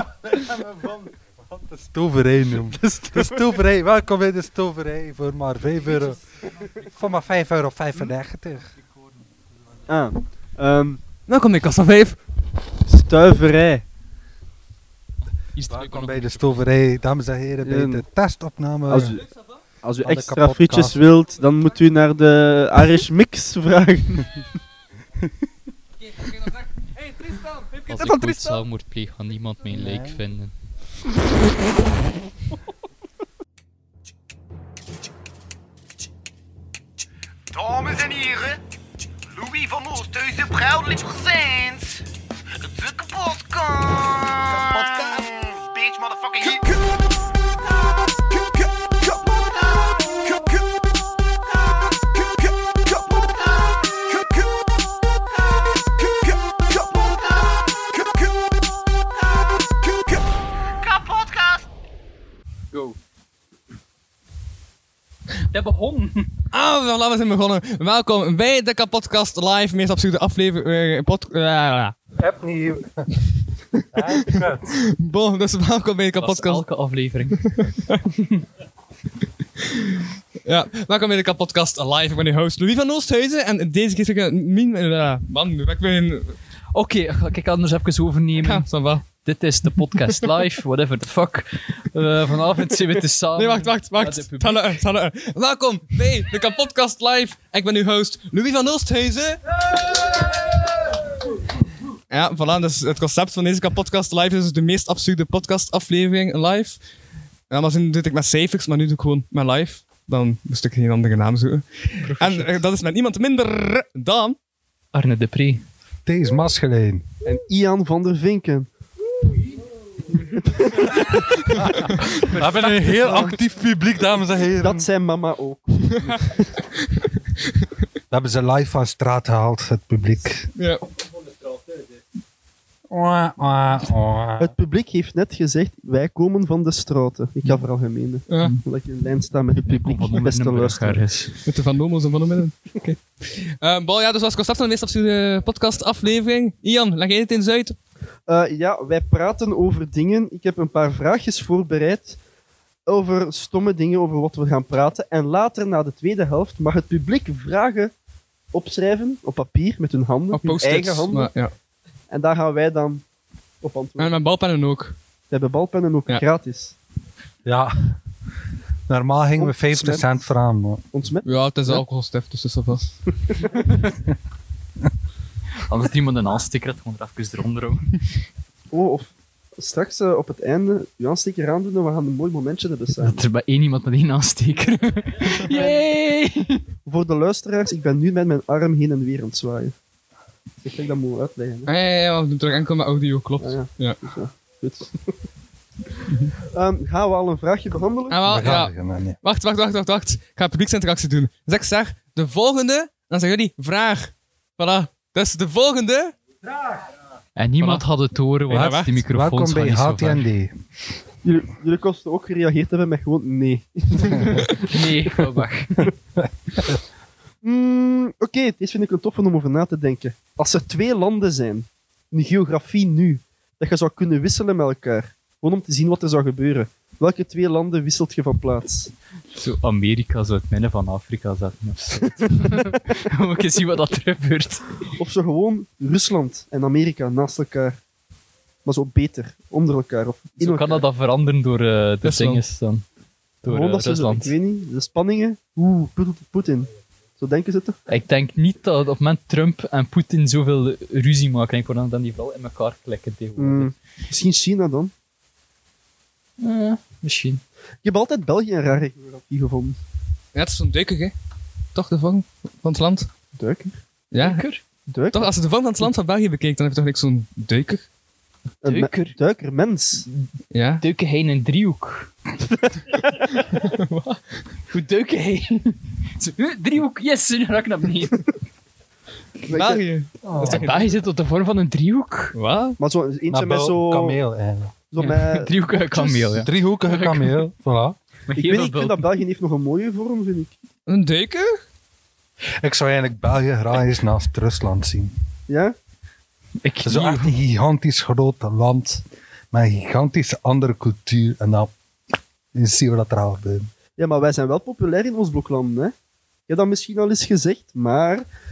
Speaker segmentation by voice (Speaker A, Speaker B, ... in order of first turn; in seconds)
Speaker A: 0.2-8.7, 15.7-19.2, 20.0-21.1, 29.7-30.2, 72.2-74.8, 116.1-117.1, 121.7-124.9, 128.1-130.5, 132.9-134.5, 167.4-168.0, 168.9-170.8, 198.2-199.2, 208.5-210.6, 283.3-284.7, 286.4-288.0, 292.6-295.1, 296.8-301.7, 302.5-303.7
Speaker B: 9.9-11.0, 12.9-13.8, 17.6-18.0, 18.9-19.3, 19.8-24.3, 117.2-118.7, 120.4-123.4, 124.6-126.5, 134.4-141.1, 148.3-152.2, 152.9-157.9, 158.5-161.3, 162.1-163.0, 163.6-164.1, 165.3-166.8, 169.4-170.3, 170.9-171.8, 173.3-173.6, 178.7-183.2, 185.4-185.8, 186.9-189.7, 190.6-191.7, 193.4-195.1, 196.5-198.2, 211.2-214.8, 217.4-228.9, 234.9-237.8, 238.7-240.8, 243.5-247.8, 253.4-254.9, 257.8-259.8, 263.4-263.8, 264.9-265.3, 268.6-270.1, 279.5-279.8, 282.8-284.2, 284.9-285.5, 288.4-290.5, 295.5-295.8, 304.0-305.9, 306.5-308.3
Speaker C: 11.3-12.2, 66.5-72.0, 74.2-76.7, 77.5-78.0, 80.5-86.4, 88.4-89.0, 90.1-90.4, 93.4-99.6, 102.1-106.8, 107.5-114.4, 130.6-130.8, 141.5-147.8, 160.3-161.5, 164.0-165.0, 171.2-172.8, 191.7-194.0, 198.1-206.1, 207.6-207.9, 208.5-208.9, 242.0-242.4, 260.4-261.1, 261.8-263.1, 264.1-264.5, 265.1-267.9, 270.5-270.8, 273.1-274.4, 279.5-280.9, 282.4-282.8, 290.9-291.6
Speaker D: 15.6-16.5, 27.9-30.5, 62.7-63.0, 65.5-66.4, 76.2-77.4, 86.7-94.8, 112.0-112.6, 114.9-115.7, 139.6-141.4, 175.7-178.0, 183.0-186.6, 207.4-210.2, 214.6-215.9, 229.3-234.7, 240.4-242.8, 243.4-244.3, 247.9-253.7, 256.4-257.4, 264.2-264.6, 268.7-269.2, 270.8-272.1, 274.7-278.3, 280.4-282.3, 285.0-287.4, 288.3-289.0, 296.6-297.4
Speaker E: 37.5-38.6, 39.4-42.0, 42.8-46.6, 61.2-61.6